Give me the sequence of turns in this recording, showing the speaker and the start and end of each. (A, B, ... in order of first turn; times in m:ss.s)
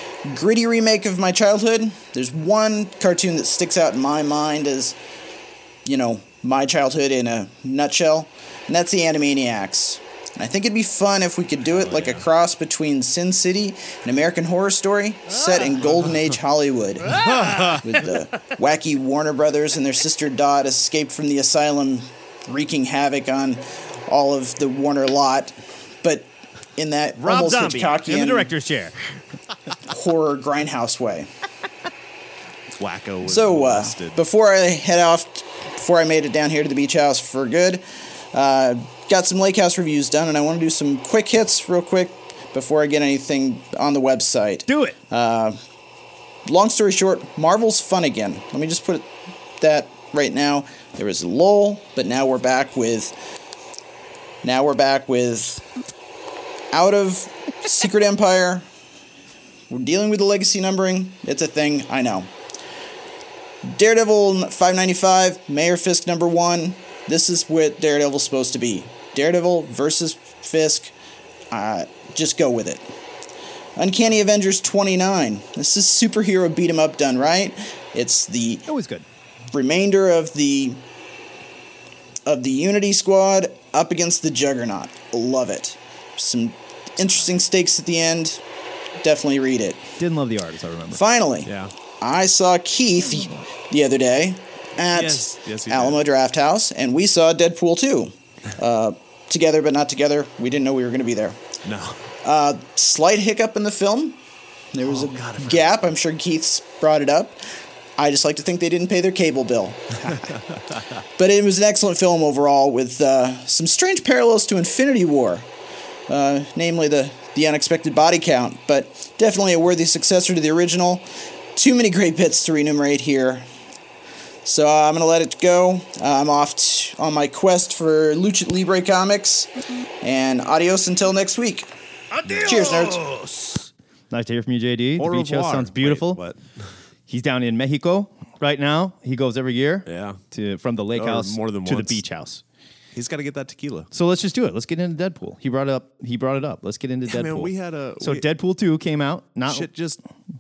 0:00.2-0:05.0 A
0:05.8-0:28.5 A
0:11.7-0:12.2 B
0:17.1-0:18.1 C
0:17.1-0:17.8 B
0:27.2-0:29.0 C
0:29.9-0:31.3 A
0:32.8-0:34.2 B
0:33.2-0:45.6 A
0:44.7-0:45.0 C
0:46.5-0:53.2 A
0:54.4-0:55.6 A
0:56.7-0:58.7 A
0:59.7-1:02.3 A
1:03.6-1:10.9 A
1:11.5-1:12.9 A
1:13.8-1:18.7 A
1:18.7-1:19.0 C
1:19.5-1:20.8 A
1:22.3-1:28.4 A
1:29.0-1:29.9 A
1:30.0-1:31.0 C
1:30.9-1:41.4 A
1:31.4-1:31.7 B
1:34.9-1:36.0 B
1:41.6-1:42.0 B
1:42.2-1:44.2 A
1:44.7-1:47.4 A
1:44.8-1:45.9 B
1:48.0-1:50.2 A
1:50.2-1:50.8 B
1:51.2-1:55.5 A
1:56.1-2:03.5 A
2:04.4-2:09.5 A
2:10.0-2:11.7 A
2:12.1-2:16.2 C
2:12.3-2:13.0 A
2:15.0-2:16.4 B
2:17.1-2:22.4 C
2:19.9-2:20.2 B
2:21.0-2:22.0 B
2:22.9-2:23.9 B
2:23.9-2:30.0 C
2:27.1-2:28.2 B
2:29.5-2:29.9 B